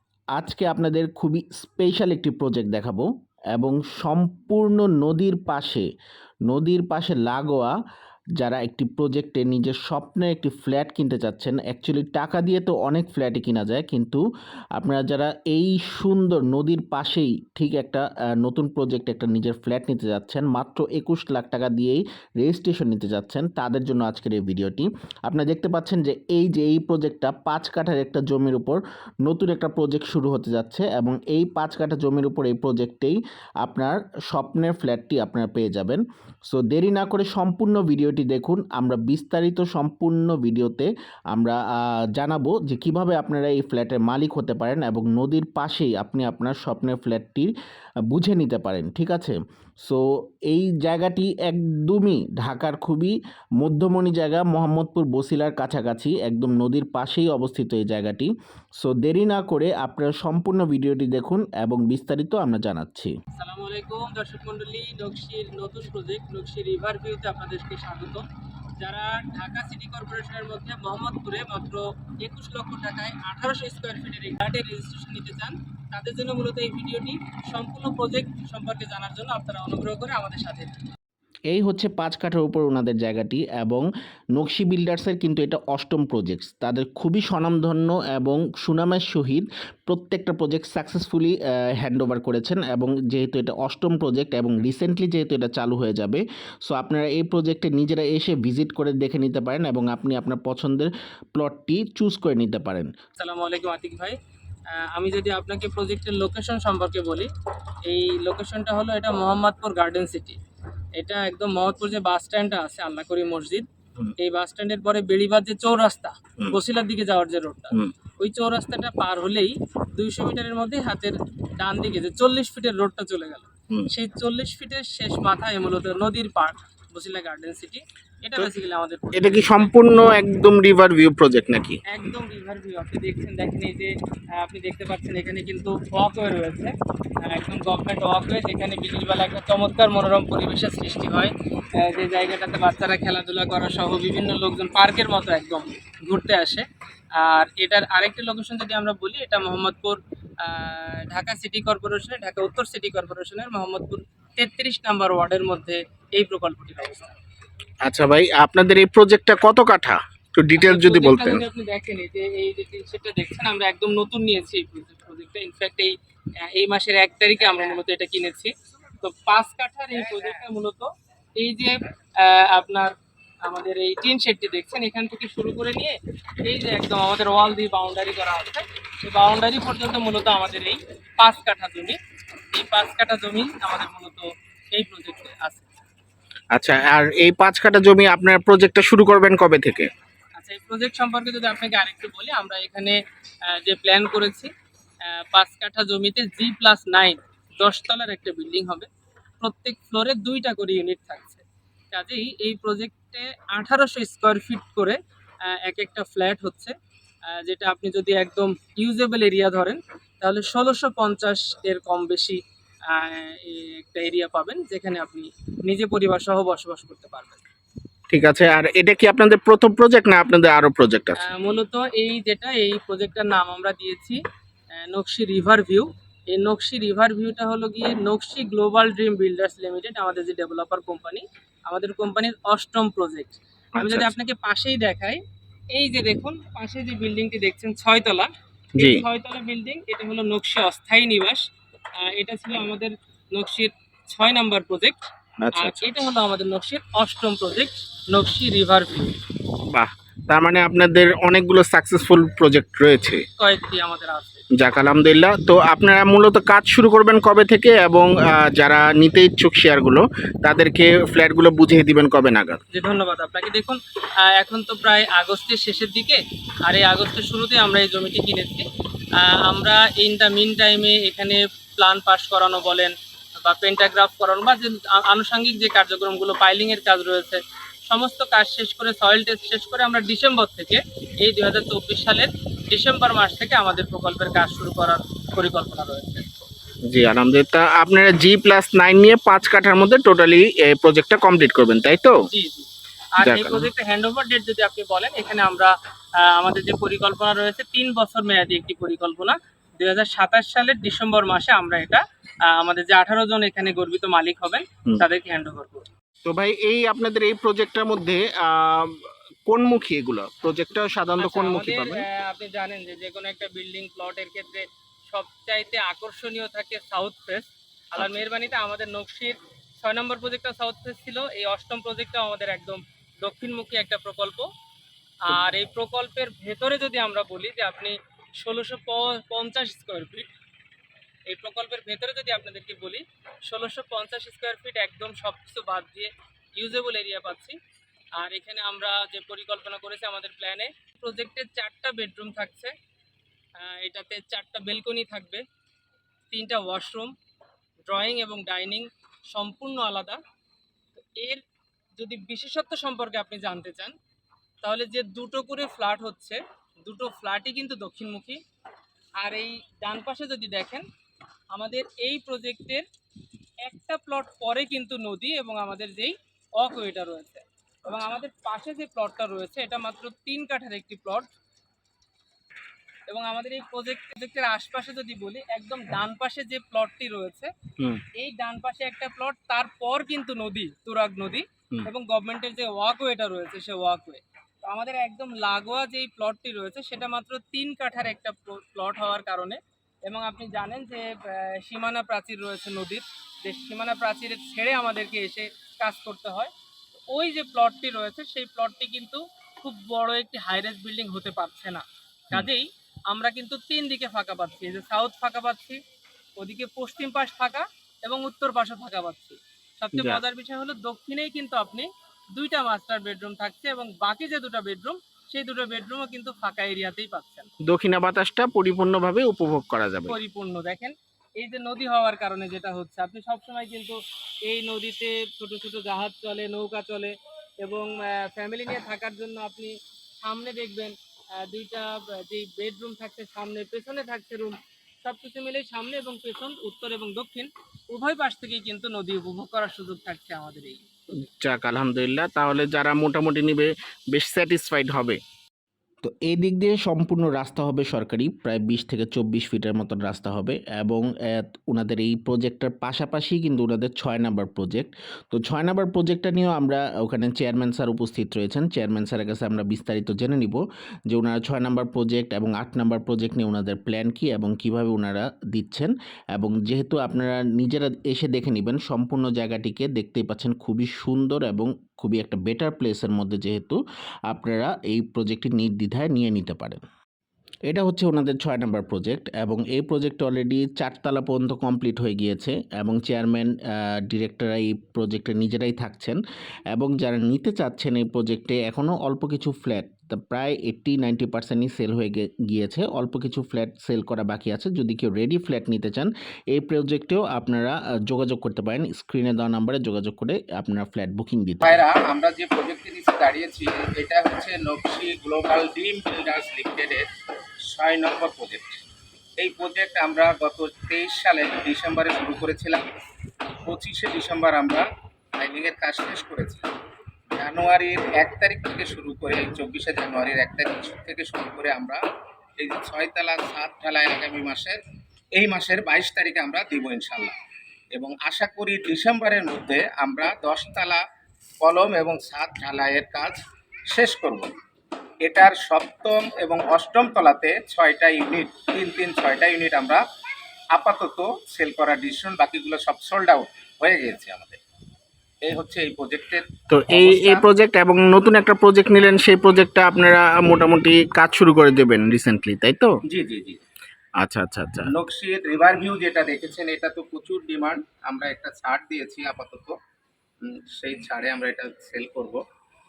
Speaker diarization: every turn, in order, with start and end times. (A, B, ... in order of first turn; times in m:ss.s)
0:00.4-0:05.9 A
0:06.5-0:07.7 A
0:08.4-0:14.2 A
0:14.8-0:41.6 A
0:42.1-0:47.5 A
0:48.1-1:03.1 A
1:03.4-1:08.2 B
1:08.8-1:20.8 B
1:21.5-1:42.9 A
1:43.2-1:44.2 B
1:44.7-1:47.3 B
1:47.9-1:50.4 B
1:51.0-1:53.7 B
1:54.2-2:09.7 B
2:09.1-2:11.8 A
2:11.9-2:37.1 B
2:37.8-2:41.4 A
2:40.6-3:02.0 B
3:02.5-3:05.7 B
3:06.5-3:09.9 A
3:10.4-3:14.5 B
3:15.0-3:18.9 B
3:19.4-3:26.8 B
3:27.3-3:37.4 B
3:38.1-3:41.3 A
3:41.2-3:44.2 B
3:44.8-3:55.2 B
3:53.8-3:54.1 A
3:55.7-4:01.4 B
3:58.8-3:59.0 A
4:02.0-4:09.1 B
4:05.4-4:06.0 A
4:09.6-4:13.2 A
4:13.4-4:14.4 B
4:14.6-4:22.6 A
4:22.7-4:28.7 B
4:29.2-4:46.3 B
4:46.9-4:52.2 A
4:52.3-5:05.9 B
4:53.2-4:53.7 A
5:06.2-5:12.1 A
5:11.2-5:24.5 B
5:25.2-5:30.3 B
5:31.3-5:37.6 B
5:38.2-5:42.7 B
5:43.6-5:45.4 B
5:46.3-5:47.1 B
5:47.9-5:50.2 B
5:51.0-5:51.4 B
5:52.0-5:53.9 B
5:54.6-5:58.4 B
5:59.2-6:00.9 B
6:01.5-6:02.9 B
6:03.6-6:11.3 B
6:13.1-6:17.5 B
6:18.2-6:36.5 B
6:37.1-6:45.8 B
6:46.4-6:57.5 B
6:50.0-6:50.2 A
6:57.6-7:00.2 A
7:00.1-7:20.8 B
7:21.2-7:25.2 A
7:26.0-7:56.8 A
7:57.7-8:06.2 A
8:06.7-8:21.8 A
8:21.6-8:27.1 C
8:27.7-8:28.8 C
8:29.4-8:32.9 C
8:33.6-8:34.9 C
8:35.4-8:36.7 C
8:37.4-8:42.0 C
8:42.6-8:44.8 C
8:45.4-8:47.4 C
8:48.0-8:51.0 C
8:51.6-8:54.5 C
8:55.2-9:00.0 C
9:00.8-9:04.6 C
9:05.5-9:07.5 C
9:06.7-9:12.9 A
9:13.1-9:13.6 C
9:14.2-9:14.9 A
9:14.9-9:19.8 C
9:20.4-9:22.4 C